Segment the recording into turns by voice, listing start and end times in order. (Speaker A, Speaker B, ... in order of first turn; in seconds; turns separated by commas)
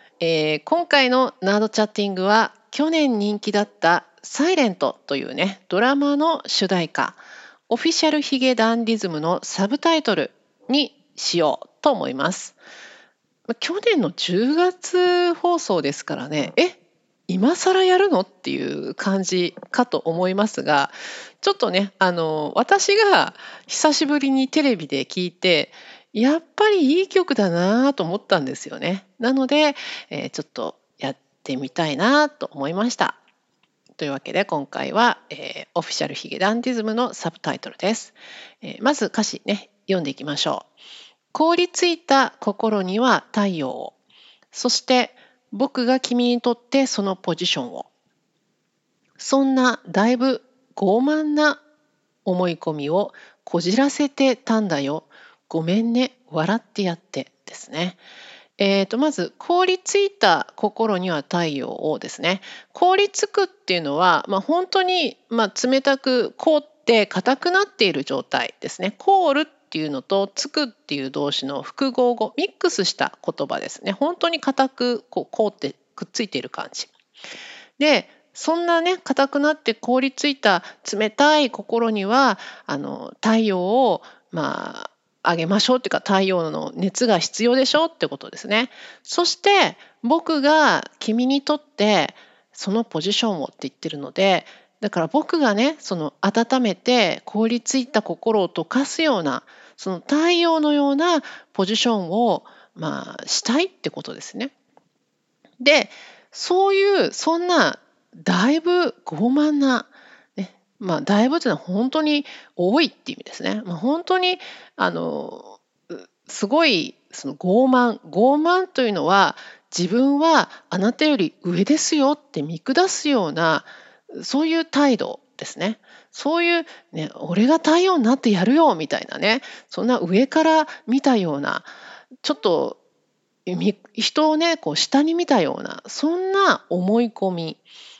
Speaker A: 0.2-12.6, Speaker A: 13.5-33.2, Speaker A: 34.0-40.7, Speaker A: 41.3-43.9, Speaker A: 44.5-47.9, Speaker A: 49.2-51.6, Speaker A: 52.2-58.0, Speaker A: 58.6-76.9, Speaker A: 77.8-104.5, Speaker A: 105.6-131.7, Speaker A: 132.2-132.8, Speaker A: 133.4-137.6